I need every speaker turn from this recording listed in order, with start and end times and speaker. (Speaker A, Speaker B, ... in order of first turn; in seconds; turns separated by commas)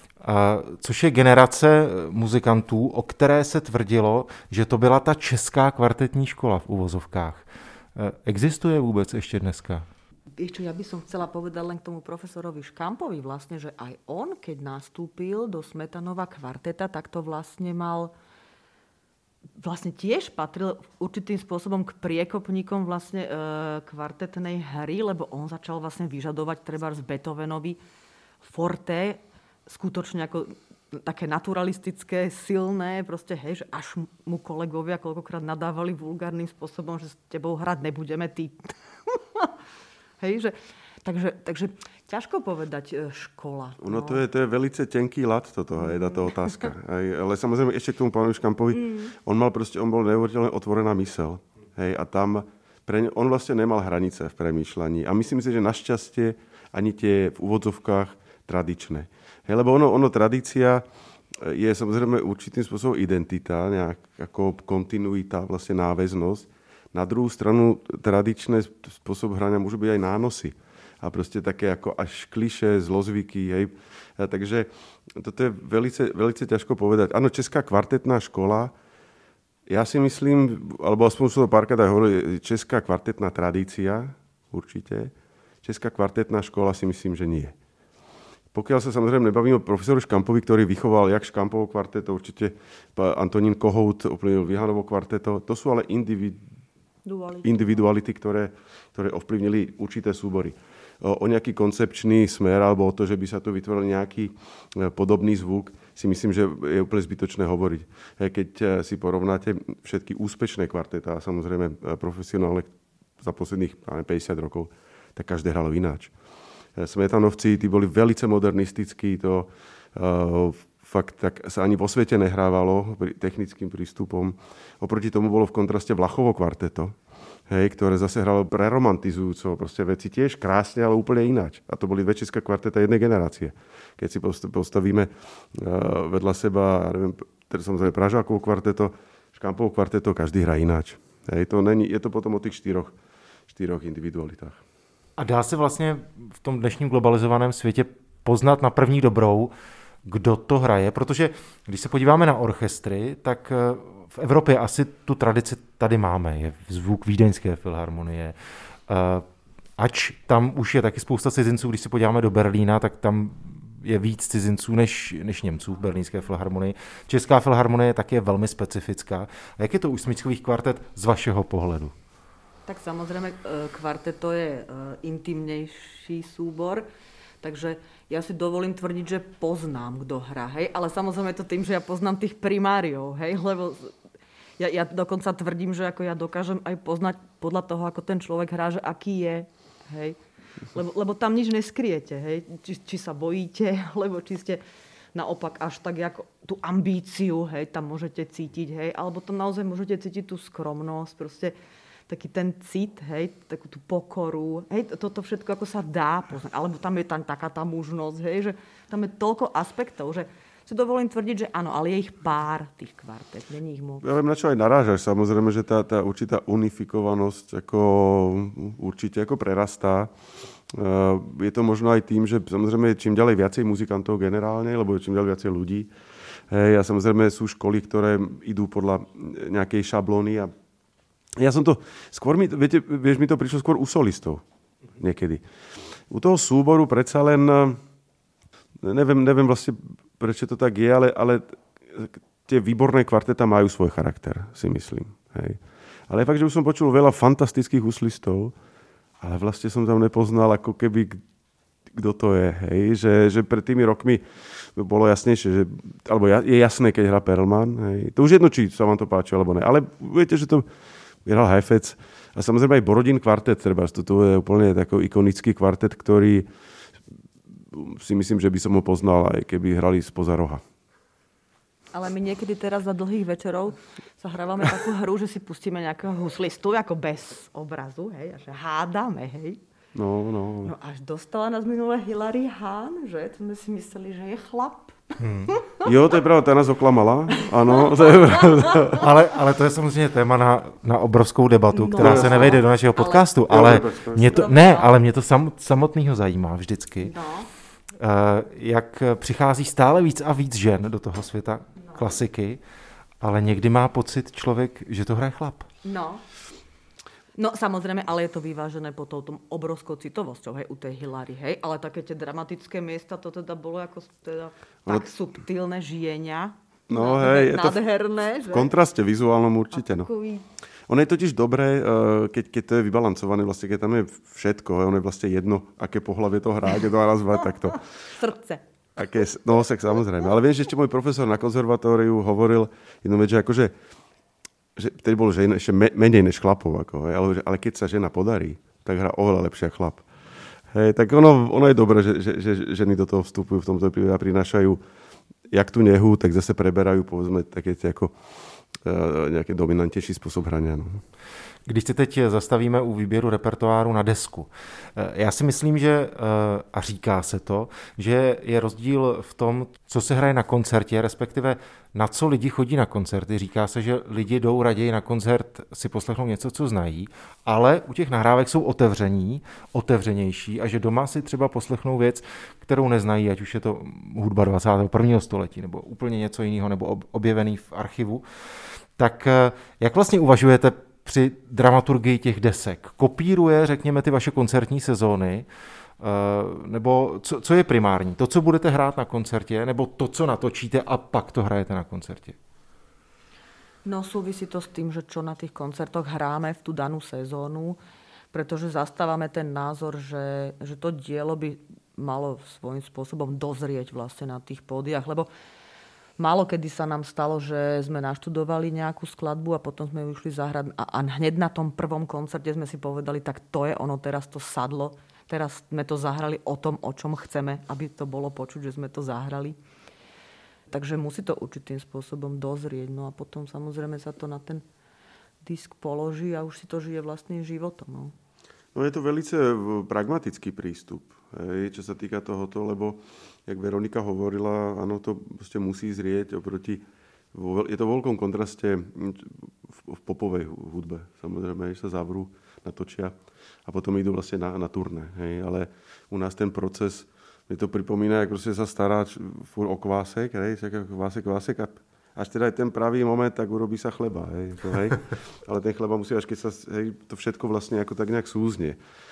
Speaker A: 0.2-7.4, Speaker A: 8.0-9.8, Speaker B: 10.4-18.1, Speaker B: 19.6-27.8, Speaker B: 28.4-39.5, Speaker B: 40.2-44.2, Speaker C: 43.8-78.7, Speaker B: 48.7-49.1, Speaker C: 79.7-87.5, Speaker C: 88.5-96.4, Speaker B: 97.0-97.6, Speaker C: 97.4-116.1, Speaker C: 116.8-126.9, Speaker C: 127.5-142.9, Speaker C: 143.5-144.6, Speaker A: 145.2-149.5, Speaker A: 150.0-158.3, Speaker A: 158.9-159.2, Speaker A: 159.8-171.9, Speaker B: 172.7-176.8, Speaker B: 177.4-183.9, Speaker B: 184.6-190.2, Speaker B: 190.7-194.6, Speaker B: 195.1-201.5, Speaker B: 202.1-214.1, Speaker C: 214.0-220.1, Speaker C: 220.7-225.9, Speaker C: 226.5-230.5, Speaker C: 231.3-234.4, Speaker C: 235.0-235.4, Speaker C: 236.1-237.8, Speaker C: 238.8-248.5, Speaker C: 249.2-251.2, Speaker C: 251.9-260.6, Speaker C: 261.2-266.5, Speaker C: 267.7-270.6, Speaker B: 271.9-279.6, Speaker C: 279.9-280.7, Speaker B: 280.6-285.9, Speaker A: 285.2-285.5, Speaker C: 285.8-289.1, Speaker B: 287.3-289.0, Speaker A: 288.9-297.1, Speaker B: 291.7-293.3, Speaker C: 292.0-292.5, Speaker C: 293.5-294.4, Speaker B: 294.3-294.9, Speaker B: 297.0-297.5, Speaker A: 298.0-302.6, Speaker A: 303.2-305.7, Speaker B: 305.8-306.2, Speaker B: 307.4-318.7, Speaker C: 316.9-317.8, Speaker C: 318.5-320.1, Speaker B: 319.7-320.4, Speaker C: 320.9-327.8, Speaker B: 328.1-328.6, Speaker C: 328.9-333.7, Speaker C: 334.8-340.1, Speaker C: 340.7-344.8, Speaker C: 345.5-348.1, Speaker C: 348.8-351.0, Speaker A: 351.6-378.2, Speaker A: 379.0-385.4, Speaker A: 386.0-392.4, Speaker B: 393.8-397.8, Speaker B: 398.3-405.3, Speaker B: 406.2-419.6, Speaker B: 420.7-424.6, Speaker B: 425.4-428.1, Speaker C: 428.7-458.8